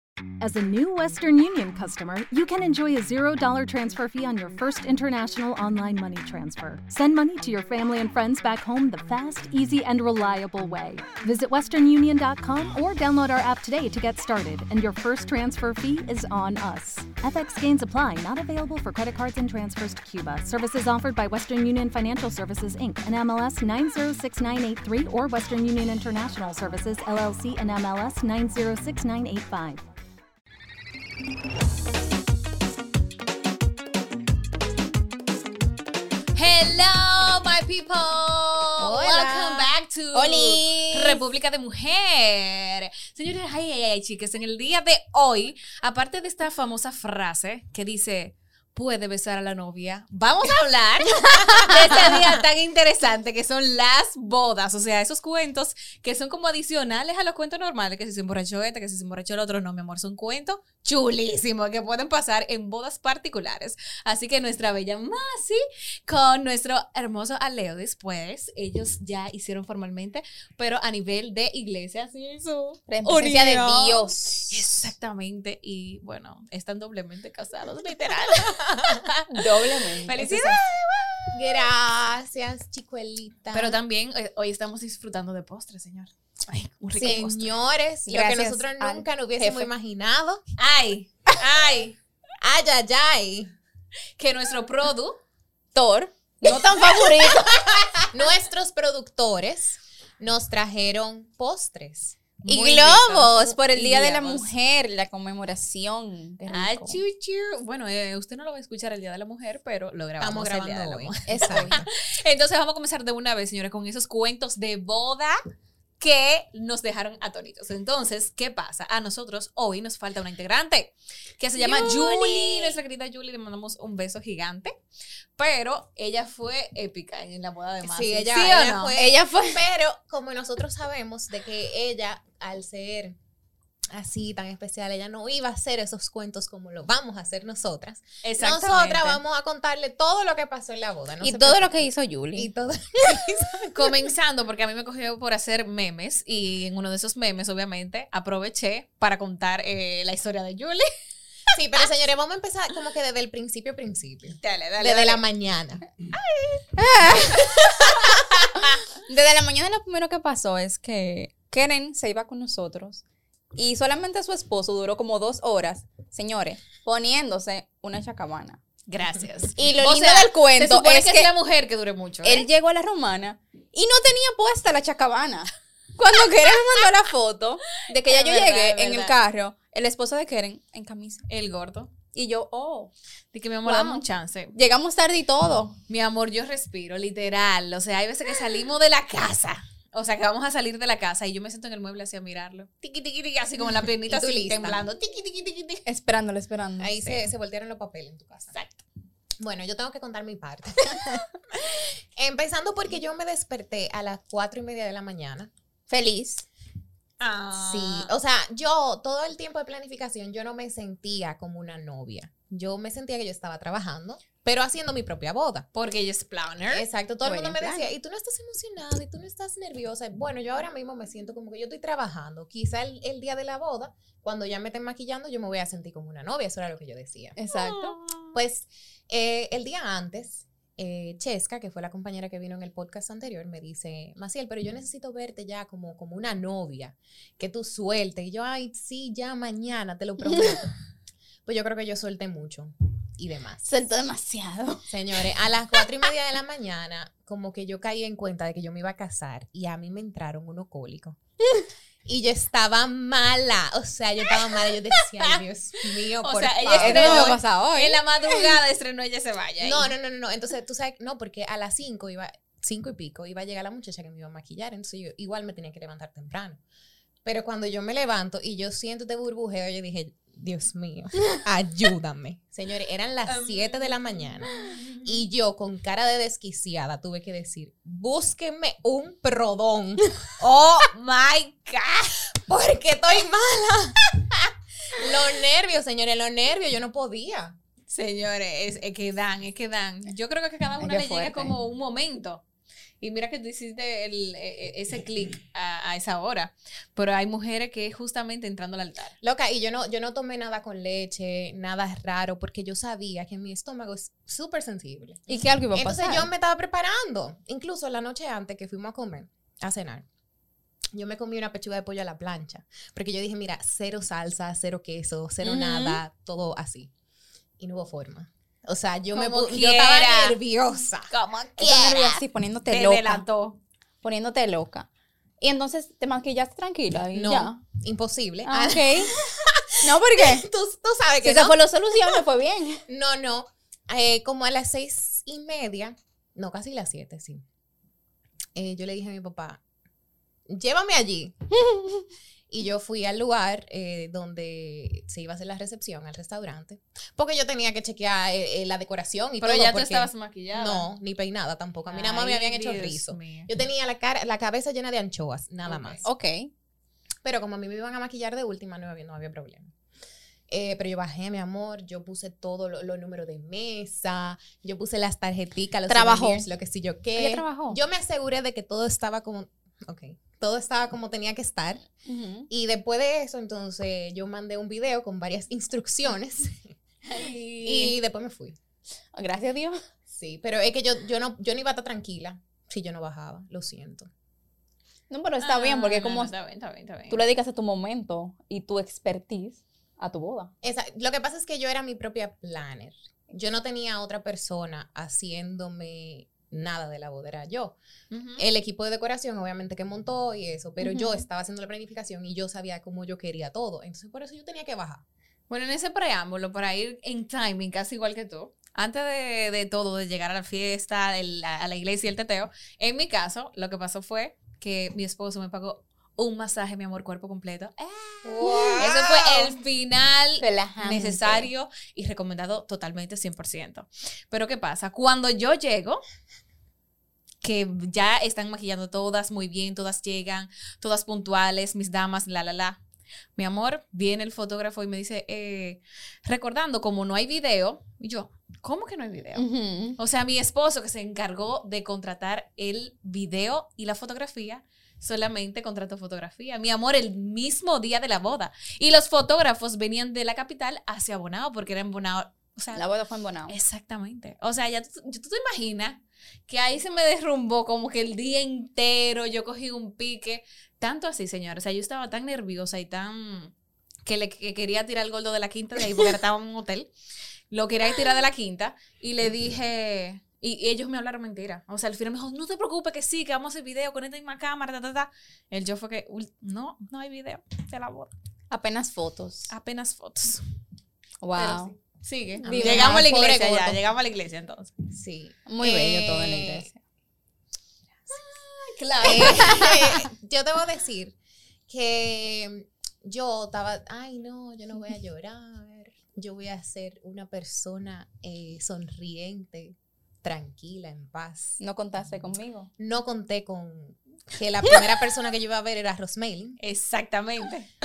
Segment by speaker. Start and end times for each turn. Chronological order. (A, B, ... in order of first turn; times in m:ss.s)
0:00.4-0:29.8 A
0:36.4-1:21.6 B
0:38.8-0:39.7 C
0:40.1-0:41.2 D
0:51.2-0:52.4 C
1:12.9-1:14.9 D
1:18.4-1:19.0 C
1:19.3-1:20.6 D
1:21.3-1:23.8 C
1:23.5-1:27.5 B
1:27.0-1:30.4 C
1:28.0-1:29.7 D
1:30.6-1:32.0 B
1:32.4-1:33.5 C
1:34.2-1:35.2 B
1:35.7-1:37.8 D
1:38.0-1:43.4 C
1:42.4-1:44.4 B
1:42.5-1:47.0 D
1:46.5-1:55.4 B
1:50.2-1:51.8 C
1:51.3-1:51.8 D
1:56.0-2:04.8 B
2:01.6-2:02.7 D
2:05.4-2:08.9 B
2:07.8-2:13.2 C
2:09.0-2:09.6 D
2:13.9-2:21.8 C
2:18.2-2:19.2 B
2:21.2-2:22.5 D
2:22.3-2:23.9 C
2:23.7-2:30.9 B
2:31.5-2:35.8 C
2:34.4-2:35.2 B
2:36.2-2:36.6 B
2:36.8-2:37.6 D
2:37.5-2:38.6 B
2:39.1-2:43.0 D
2:43.5-2:48.6 D
2:48.9-2:52.5 B
2:49.6-2:51.3 D
2:52.2-3:01.2 D
2:56.4-2:56.8 B
2:57.9-2:59.1 B
3:01.3-3:01.9 B
3:02.1-3:02.9 D
3:03.3-3:04.5 B
3:03.6-3:04.0 D
3:04.5-3:05.8 D
3:05.9-3:15.8 B
3:14.1-3:14.8 C
3:15.8-3:16.9 D
3:16.8-3:18.5 C
3:18.5-3:18.8 B
3:19.4-3:25.5 C
3:25.9-3:26.4 D
3:27.2-3:28.1 B
3:27.6-3:35.7 C
3:35.7-3:36.8 B
3:36.7-3:47.4 C
3:37.2-3:37.9 D
3:47.4-3:48.0 D
3:47.5-3:48.1 B
3:48.3-4:00.7 C
4:01.4-4:03.7 C
4:03.6-4:04.8 D
4:04.9-4:11.2 C
4:12.0-4:17.4 C
4:16.2-4:19.9 B
4:16.7-4:18.4 D
4:19.6-4:26.6 C
4:27.2-4:40.9 C
4:33.3-4:34.0 B
4:34.6-4:35.1 B
4:40.9-4:42.3 B
4:42.5-4:44.4 C
4:45.0-4:47.6 C
4:47.9-4:52.4 B
4:50.8-4:51.6 D
4:53.0-4:59.2 B
4:59.2-5:10.0 C
5:05.3-5:06.3 D
5:10.9-5:16.9 C
5:15.4-5:16.0 D
5:17.6-5:22.0 C
5:19.1-5:20.4 B
5:21.1-5:23.6 B
5:21.6-5:23.2 D
5:24.0-5:24.9 D
5:25.4-5:27.6 D
5:27.1-5:32.2 C
5:28.4-5:29.2 D
5:29.8-5:30.4 D
5:31.2-5:32.8 D
5:32.9-5:37.4 C
5:38.5-5:39.6 C
5:40.5-5:41.5 C
5:42.5-5:56.0 C
5:49.4-5:50.9 B
5:51.9-5:53.5 B
5:55.6-5:56.0 B
5:56.0-5:56.5 D
5:57.2-5:59.7 C
6:00.5-6:11.8 C
6:05.9-6:06.5 D
6:07.2-6:07.8 D
6:12.0-6:12.5 D
6:12.5-6:16.7 C
6:17.1-6:18.0 B
6:17.6-6:18.6 C
6:19.1-6:19.8 D
6:20.1-6:24.1 C
6:25.1-6:26.3 D
6:25.4-6:27.3 B
6:27.1-6:30.5 D
6:30.6-6:37.8 C
6:38.1-6:38.4 B
6:38.4-6:45.0 C
6:40.8-6:41.2 D
6:45.5-7:06.0 B
6:58.2-6:59.5 C
7:00.4-7:01.5 D
7:07.4-7:12.8 B
7:13.4-7:19.4 B
7:19.4-7:20.0 D
7:20.0-7:32.8 B
7:32.8-7:33.6 D
7:33.5-7:43.5 B
7:44.0-7:46.9 B
7:47.5-7:58.1 B
7:58.5-7:59.5 D
7:59.5-8:00.4 B
8:01.2-8:01.7 D
8:01.3-8:04.7 B
8:02.4-8:03.1 D
8:02.4-8:03.8 C
8:04.9-8:06.7 C
8:05.5-8:06.8 D
8:08.1-8:10.0 B
8:09.0-8:11.2 C
8:11.7-8:21.6 C
8:21.6-8:22.7 D
8:22.8-8:26.6 C
8:26.6-8:27.7 B